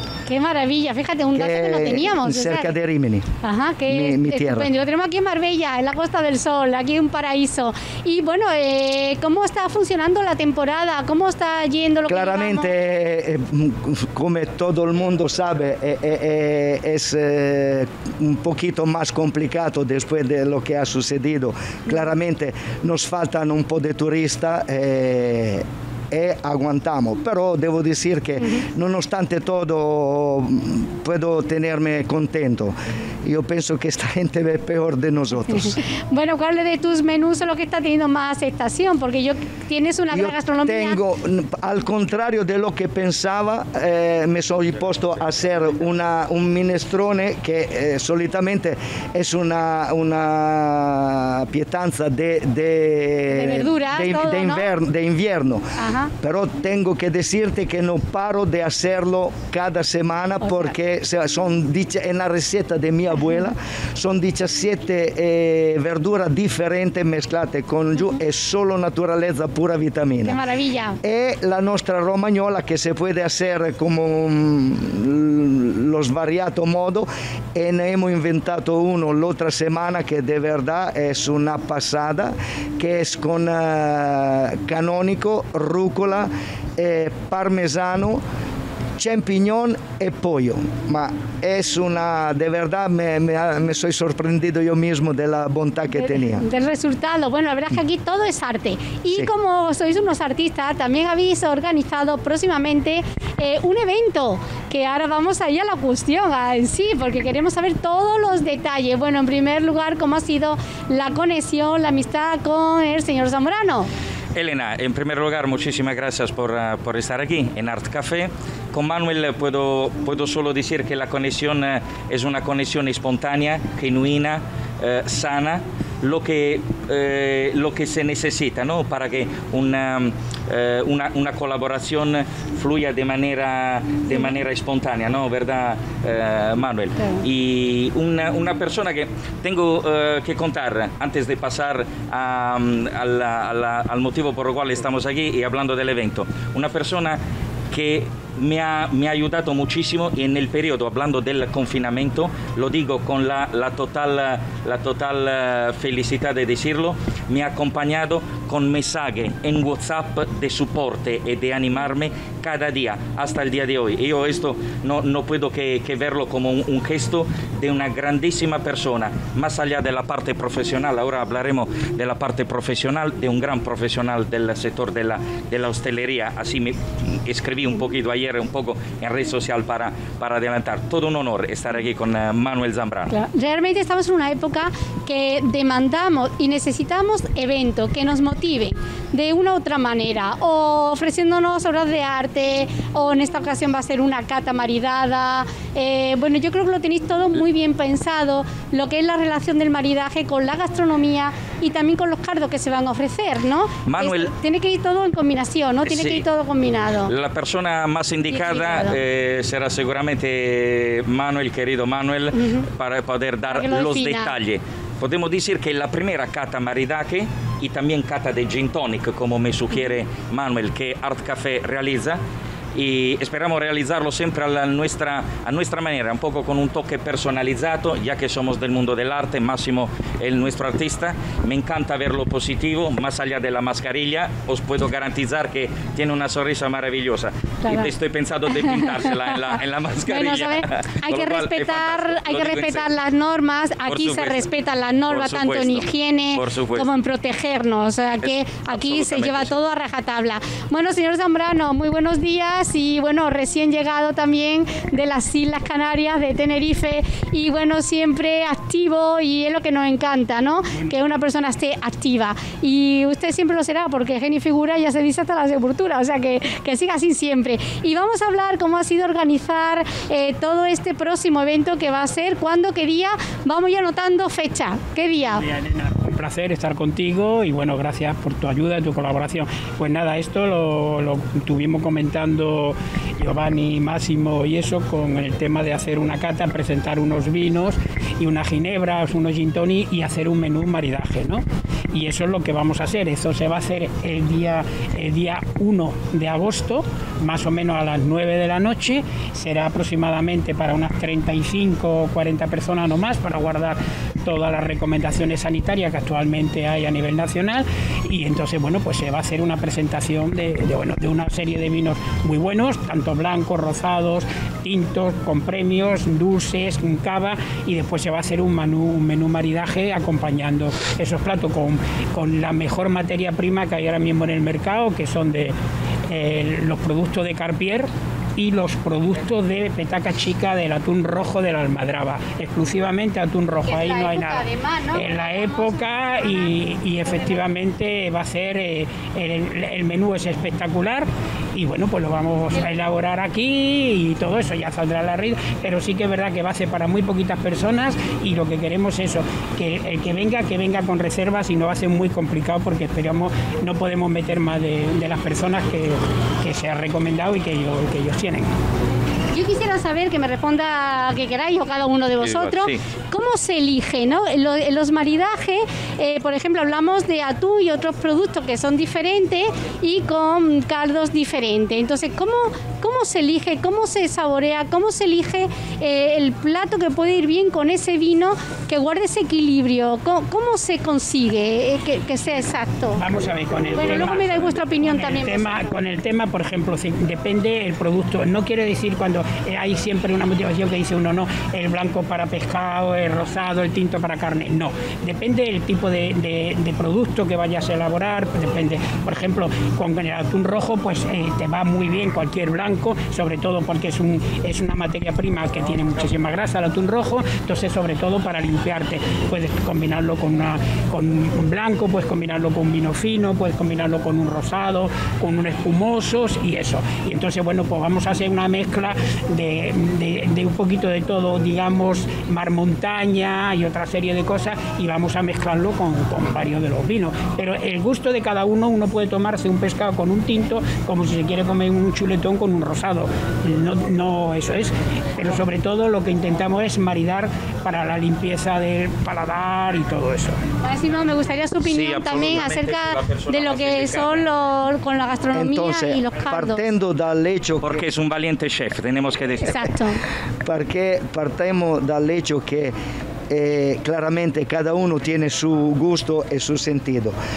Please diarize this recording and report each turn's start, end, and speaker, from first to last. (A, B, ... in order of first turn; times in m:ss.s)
0:00.3-0:02.7 A
0:01.3-0:03.3 B
0:03.4-0:12.7 A
0:03.9-0:04.7 B
0:12.1-0:35.8 B
0:35.5-0:41.0 A
0:40.1-0:55.6 B
0:53.3-0:54.7 A
0:55.8-0:56.1 A
0:56.2-1:10.4 B
1:10.2-1:11.0 A
1:11.0-1:28.2 B
1:29.0-1:36.4 B
1:36.0-1:53.9 A
1:54.3-2:27.2 C
2:27.7-3:03.1 C
3:03.1-3:27.1 A
3:23.8-3:24.3 C
3:25.8-3:26.2 C
3:27.1-3:42.2 C
3:28.3-3:29.0 A
3:33.5-3:34.3 A
3:42.7-4:02.9 C
3:57.6-3:57.9 A
3:58.6-4:35.4 A
4:03.9-4:04.4 C
4:05.1-4:06.9 C
4:08.2-4:09.5 C
4:35.4-5:25.5 D
5:26.1-5:58.5 D
5:33.6-5:35.8 A
5:59.3-6:23.0 A
6:02.2-6:02.8 C
6:23.0-7:20.4 D
6:23.7-6:25.7 A
7:20.6-7:26.6 A
7:21.6-7:24.3 C
7:25.3-7:27.8 B
7:27.6-7:29.7 C
7:29.4-7:30.0 A
7:30.4-7:32.7 B
7:33.3-7:37.1 B